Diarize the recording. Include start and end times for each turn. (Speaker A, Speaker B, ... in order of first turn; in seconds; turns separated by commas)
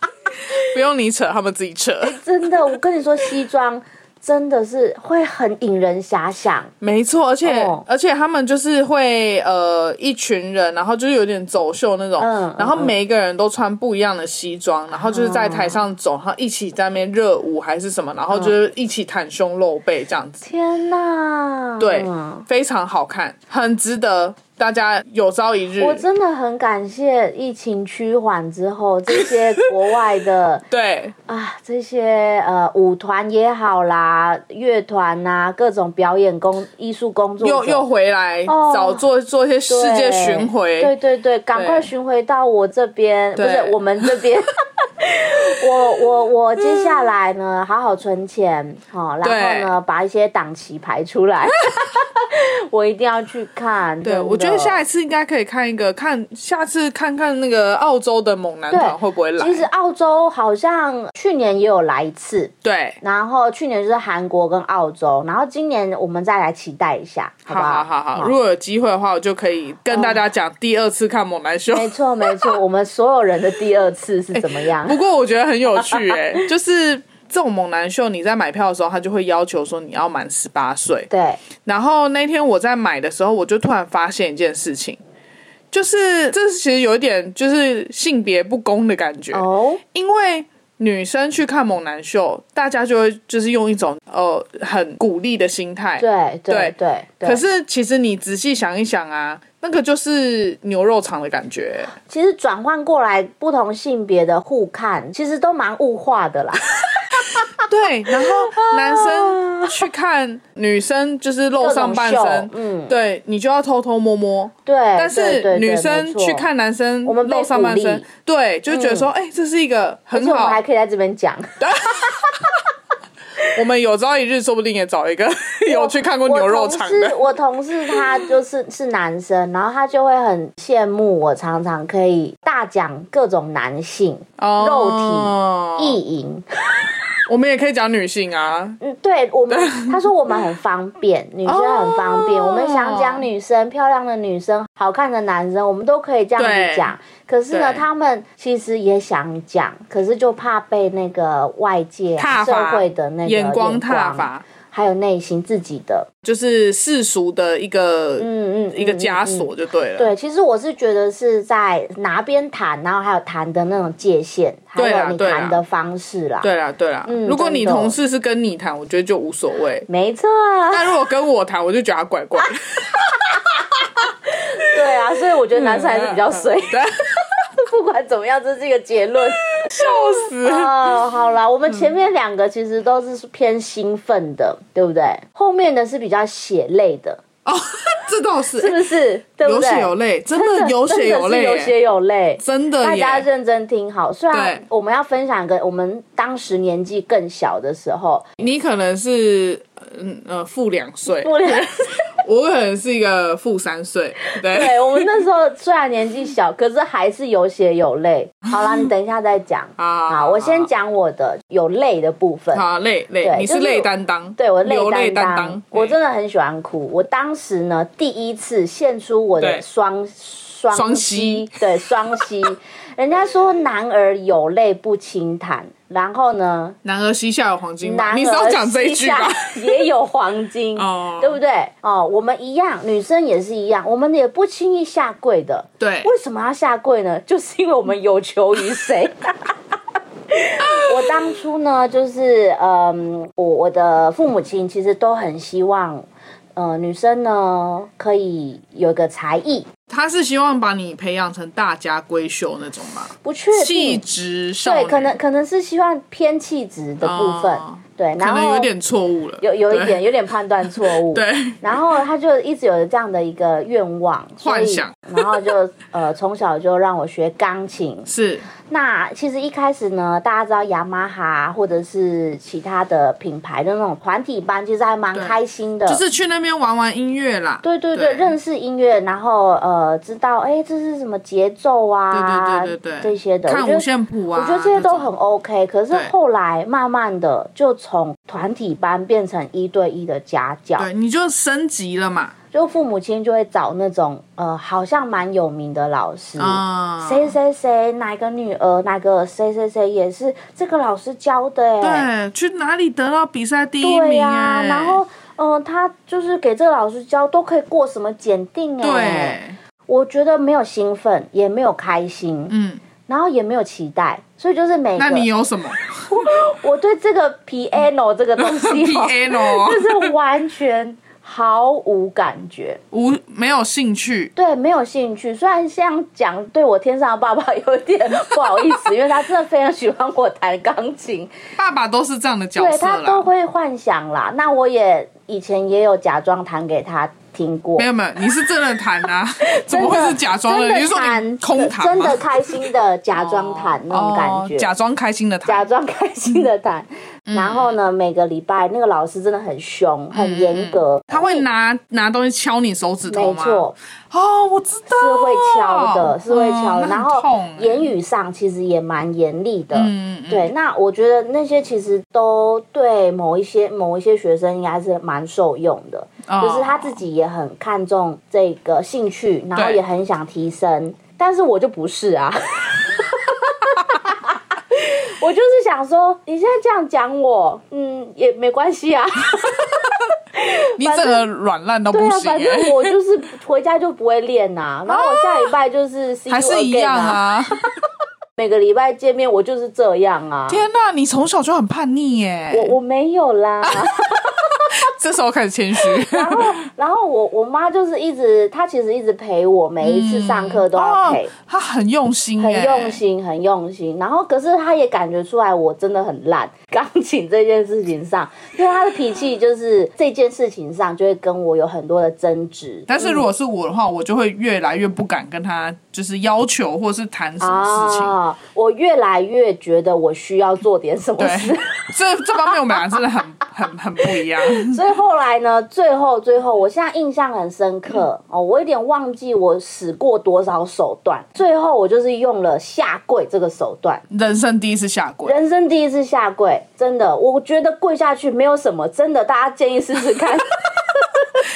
Speaker A: 0.5-2.2, Speaker B: 2.0-6.7, Speaker A: 6.8-20.4, Speaker B: 7.4-7.8, Speaker B: 12.2-12.9, Speaker B: 14.9-15.8, Speaker B: 20.4-22.4, Speaker A: 21.8-26.1, Speaker B: 25.8-30.6, Speaker A: 29.1-29.4, Speaker A: 30.7-31.1, Speaker B: 31.3-37.8, Speaker A: 37.4-40.9, Speaker B: 38.5-39.0, Speaker B: 39.7-54.8, Speaker A: 41.5-41.9, Speaker A: 43.4-44.1, Speaker A: 46.6-47.0, Speaker A: 49.2-49.7, Speaker A: 54.0-59.7, Speaker B: 58.7-68.3, Speaker A: 62.6-63.0, Speaker A: 67.5-72.5, Speaker B: 69.9-70.2, Speaker B: 71.7-75.0, Speaker A: 74.3-81.1, Speaker B: 75.8-76.2, Speaker B: 81.1-81.4, Speaker A: 81.6-85.0, Speaker A: 85.7-101.9, Speaker B: 89.3-89.8, Speaker B: 96.0-97.4, Speaker B: 102.1-107.6, Speaker A: 107.3-120.6, Speaker B: 108.2-109.8, Speaker B: 111.6-113.0, Speaker B: 114.7-116.5, Speaker B: 117.0-118.0, Speaker B: 118.7-119.1, Speaker B: 120.1-122.3, Speaker A: 121.6-122.5, Speaker A: 123.5-127.3, Speaker B: 125.7-136.4, Speaker A: 127.9-128.2, Speaker A: 134.4-136.0, Speaker A: 137.3-138.8, Speaker B: 138.8-156.1, Speaker A: 139.5-140.1, Speaker A: 141.5-143.3, Speaker A: 146.4-146.9, Speaker A: 147.5-147.8, Speaker A: 152.2-154.5, Speaker A: 156.2-160.1, Speaker B: 158.2-166.5, Speaker A: 164.8-165.6, Speaker A: 166.4-169.9, Speaker B: 167.1-168.0, Speaker B: 169.9-170.8, Speaker A: 170.7-173.6, Speaker B: 174.3-187.2, Speaker A: 175.5-177.0, Speaker A: 179.6-180.9, Speaker A: 187.4-188.8, Speaker B: 188.6-198.3, Speaker A: 189.4-191.7, Speaker A: 192.4-193.3, Speaker A: 194.3-194.6, Speaker A: 198.4-205.1, Speaker B: 201.1-201.9, Speaker B: 204.3-212.6, Speaker A: 208.6-208.9, Speaker A: 209.8-210.7, Speaker A: 212.5-215.9, Speaker B: 213.2-226.8, Speaker A: 219.4-219.6, Speaker A: 220.7-221.5, Speaker A: 226.8-229.8, Speaker B: 227.8-239.3, Speaker A: 230.8-231.4, Speaker A: 235.8-236.1, Speaker B: 240.3-246.1, Speaker A: 240.6-241.2, Speaker B: 246.6-249.7, Speaker A: 249.9-255.2, Speaker B: 253.2-254.0, Speaker B: 254.6-258.7, Speaker A: 257.0-260.0, Speaker B: 259.4-268.1, Speaker A: 260.6-262.0, Speaker A: 264.4-265.4, Speaker A: 268.1-268.5, Speaker B: 268.7-276.0, Speaker A: 275.1-278.3, Speaker B: 277.6-290.9, Speaker A: 282.1-285.1, Speaker A: 290.8-292.4, Speaker B: 292.5-302.1, Speaker A: 296.4-297.3, Speaker A: 301.8-305.0, Speaker B: 303.8-312.6, Speaker A: 308.8-309.6, Speaker A: 312.5-312.8, Speaker B: 313.1-315.3, Speaker A: 315.0-316.3, Speaker B: 316.1-322.8, Speaker A: 318.4-320.1, Speaker A: 322.9-324.3, Speaker B: 324.4-331.3, Speaker A: 331.6-333.3, Speaker B: 332.6-337.9, Speaker A: 337.8-342.6, Speaker B: 339.4-344.7, Speaker A: 343.1-345.7, Speaker B: 345.5-351.4, Speaker A: 347.3-347.8, Speaker A: 350.1-357.9, Speaker B: 353.1-353.8, Speaker B: 354.9-381.2, Speaker A: 359.7-360.5, Speaker A: 366.3-367.0, Speaker A: 369.6-369.8, Speaker A: 380.8-382.9, Speaker B: 381.9-387.2, Speaker A: 384.9-385.5, Speaker A: 386.3-387.6, Speaker B: 388.4-390.6, Speaker A: 390.5-392.8, Speaker B: 392.5-394.8, Speaker A: 393.6-393.9, Speaker A: 394.5-396.6, Speaker B: 396.0-401.3, Speaker A: 399.8-403.0, Speaker B: 402.4-413.3, Speaker A: 412.9-418.2, Speaker B: 417.4-423.0, Speaker A: 421.2-424.8, Speaker B: 424.1-434.0, Speaker A: 434.1-435.4, Speaker B: 435.2-441.4